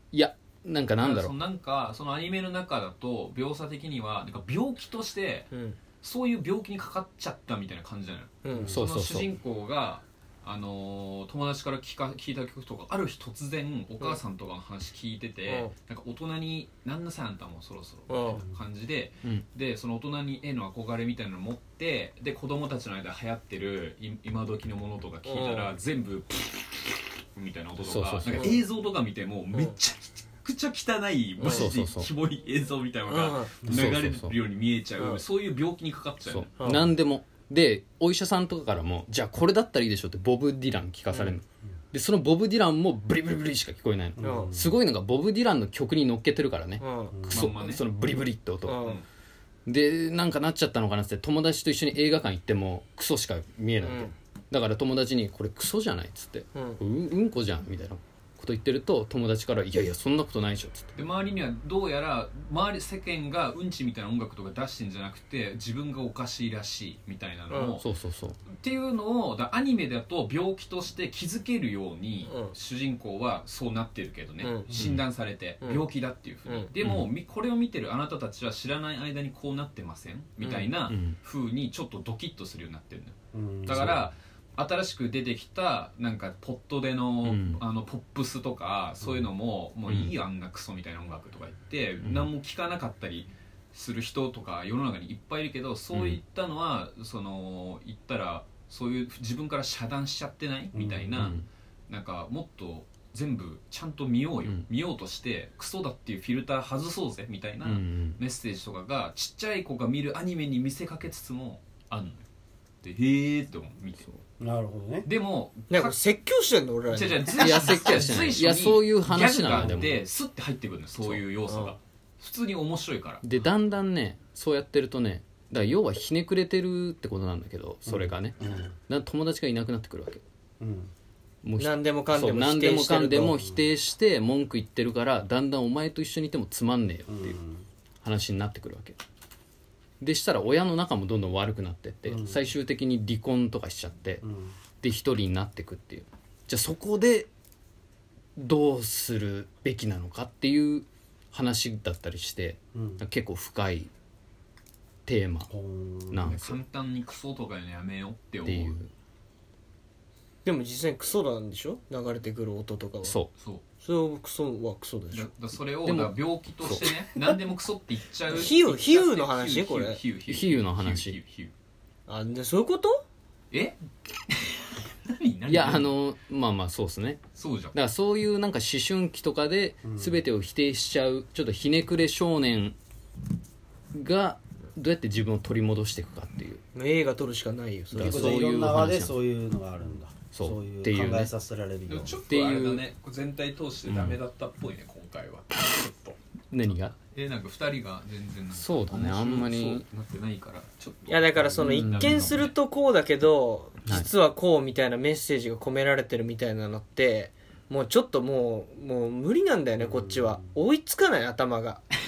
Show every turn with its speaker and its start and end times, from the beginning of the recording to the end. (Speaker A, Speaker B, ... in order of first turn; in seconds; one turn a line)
Speaker A: 0.1-1.3
Speaker B: 1.0-5.5
Speaker C: 5.5-5.8
Speaker B: 6.0-36.5
Speaker C: 8.4-8.7
Speaker A: 8.7-9.3
Speaker C: 15.5-15.7
Speaker C: 18.1-18.4
Speaker C: 25.2-25.7
Speaker A: 27.8-28.5
Speaker C: 31.4-31.7
Speaker A: 31.4-32.1
Speaker C: 33.1-33.5
Speaker A: 33.6-34.4
Speaker A: 36.3-48.8
Speaker C: 36.6-36.9
Speaker D: 44.2-44.8
Speaker C: 44.2-44.5
Speaker C: 46.8-47.2
Speaker D: 47.1-47.5
Speaker B: 47.3-47.8
Speaker C: 48.6-49.0
Speaker A: 49.6-60.9
Speaker C: 53.8-54.1
Speaker C: 56.5-56.8
Speaker B: 60.9-67.8
Speaker C: 67.5-67.8
Speaker A: 67.8-68.4
Speaker B: 68.5-112.2
Speaker C: 72.2-72.5
Speaker C: 74.4-74.8
Speaker A: 74.7-75.0
Speaker C: 75.6-75.9
Speaker C: 80.4-80.7
Speaker A: 80.9-81.2
Speaker D: 83.3-83.9
Speaker A: 83.7-84.0
Speaker A: 87.2-87.6
Speaker D: 89.0-89.3
Speaker A: 89.9-90.1
Speaker A: 92.0-92.3
Speaker A: 95.9-96.2
Speaker A: 100.7-101.5
Speaker A: 107.6-108.2
Speaker B: 112.8-114.0
Speaker D: 114.4-115.1
Speaker B: 115.0-116.0
Speaker C: 115.7-117.3
Speaker B: 116.9-123.2
Speaker A: 117.3-120.0
Speaker D: 119.4-119.8
Speaker C: 121.5-121.7
Speaker A: 123.2-130.2
Speaker D: 127.9-128.7
Speaker D: 130.6-130.9
Speaker A: 131.4-137.4
Speaker C: 131.6-133.4
Speaker D: 137.1-137.6
Speaker A: 138.0-139.0
Speaker A: 140.0-144.2
Speaker D: 142.1-142.4
Speaker D: 144.2-144.6
Speaker A: 144.8-147.3
Speaker A: 148.4-153.9
Speaker D: 152.7-153.0
Speaker A: 155.1-155.5
Speaker D: 155.5-156.3
Speaker A: 156.1-156.6
Speaker B: 156.2-158.8
Speaker A: 158.4-158.9
Speaker C: 160.4-163.2
Speaker A: 163.0-163.3
Speaker B: 163.4-163.6
Speaker C: 163.8-165.3
Speaker B: 165.1-171.5
Speaker A: 165.8-166.9
Speaker C: 168.3-170.0
Speaker A: 170.3-171.2
Speaker C: 172.1-173.0
Speaker B: 173.5-173.8
Speaker B: 174.3-175.9
Speaker A: 175.5-177.2
Speaker B: 177.3-177.7
Speaker A: 177.7-182.8
Speaker D: 179.8-180.2
Speaker A: 183.9-186.6
Speaker C: 186.7-188.5
Speaker A: 187.9-189.2
Speaker D: 187.9-192.2
Speaker A: 190.3-191.3
Speaker B: 191.9-196.2
Speaker A: 192.3-192.9
Speaker A: 193.9-194.2
Speaker A: 196.5-196.9
Speaker B: 196.9-202.5
Speaker A: 198.5-199.8
Speaker C: 201.1-211.8
Speaker A: 201.6-202.4
Speaker A: 203.8-204.1
Speaker D: 209.8-210.5